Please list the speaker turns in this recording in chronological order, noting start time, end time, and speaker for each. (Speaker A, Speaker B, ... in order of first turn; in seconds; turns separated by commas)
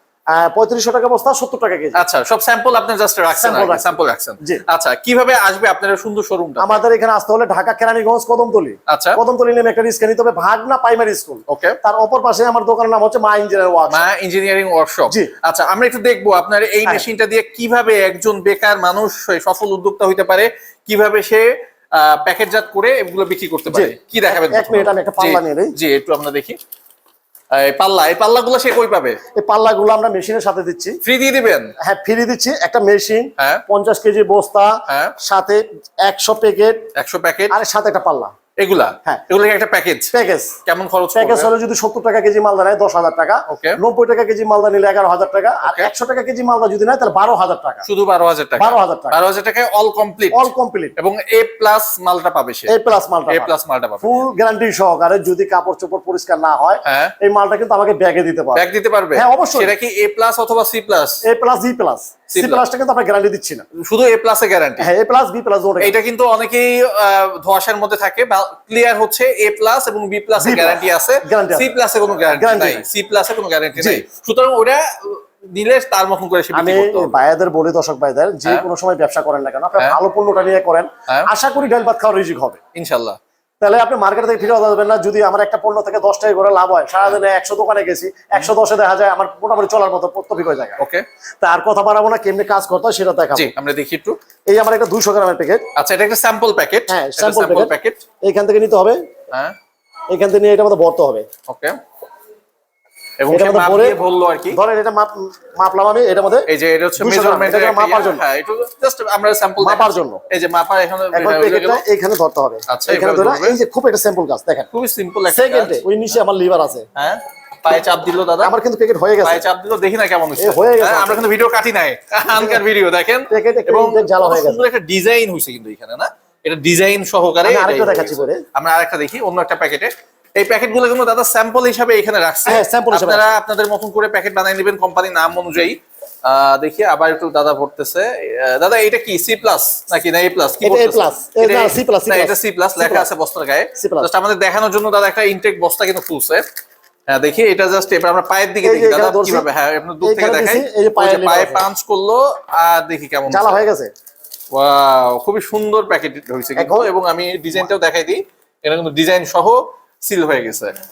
Speaker A: 0.3-2.0, Speaker B: 1.9-6.8, Speaker A: 3.3-4.6, Speaker A: 6.6-14.1, Speaker B: 8.9-9.2, Speaker B: 11.5-11.8, Speaker B: 13.9-26.6, Speaker A: 15.1-15.3, Speaker A: 23.7-25.7, Speaker B: 27.5-29.2, Speaker A: 29.4-31.0, Speaker B: 31.0-31.7, Speaker A: 31.8-34.7, Speaker B: 33.4-33.6, Speaker B: 34.9-35.2, Speaker A: 35.2-36.8, Speaker B: 37.0-37.6, Speaker A: 37.5-38.3, Speaker B: 38.6-40.1, Speaker A: 40.1-40.5, Speaker B: 40.6-41.5, Speaker A: 41.1-47.9, Speaker B: 43.5-43.8, Speaker B: 45.6-45.9, Speaker B: 47.9-52.7, Speaker A: 48.6-49.2, Speaker A: 50.3-51.0, Speaker A: 52.7-59.7, Speaker B: 53.3-54.1, Speaker B: 56.8-57.1, Speaker B: 58.5-61.2, Speaker A: 61.2-63.6, Speaker B: 62.3-62.6, Speaker B: 63.8-64.9, Speaker A: 64.8-66.0, Speaker B: 65.8-77.2, Speaker A: 70.4-71.7, Speaker A: 72.3-72.8, Speaker A: 73.8-74.0, Speaker A: 76.5-82.6, Speaker B: 82.8-83.2, Speaker A: 83.6-90.8, Speaker B: 90.8-91.0, Speaker A: 91.4-93.5, Speaker B: 93.3-94.2, Speaker A: 94.5-95.6, Speaker B: 95.8-98.0, Speaker A: 96.9-97.7, Speaker A: 98.2-99.0, Speaker A: 100.1-101.3, Speaker B: 101.5-101.8, Speaker B: 103.2-104.6, Speaker A: 103.3-104.0, Speaker A: 104.5-106.5, Speaker B: 106.5-111.8, Speaker A: 107.0-108.2, Speaker A: 109.6-110.2, Speaker A: 111.1-114.7, Speaker B: 112.7-113.6, Speaker B: 114.7-115.8, Speaker A: 115.3-116.9, Speaker B: 117.0-118.5, Speaker A: 118.4-119.4, Speaker B: 119.2-146.4, Speaker A: 120.4-121.3, Speaker A: 122.3-122.6, Speaker A: 123.3-124.7, Speaker A: 127.4-128.4, Speaker A: 132.4-133.3, Speaker A: 140.6-143.1, Speaker A: 143.8-144.1, Speaker B: 147.1-153.6, Speaker A: 148.6-149.5, Speaker A: 150.0-151.7, Speaker A: 153.3-153.9, Speaker B: 154.5-160.7, Speaker A: 156.6-156.9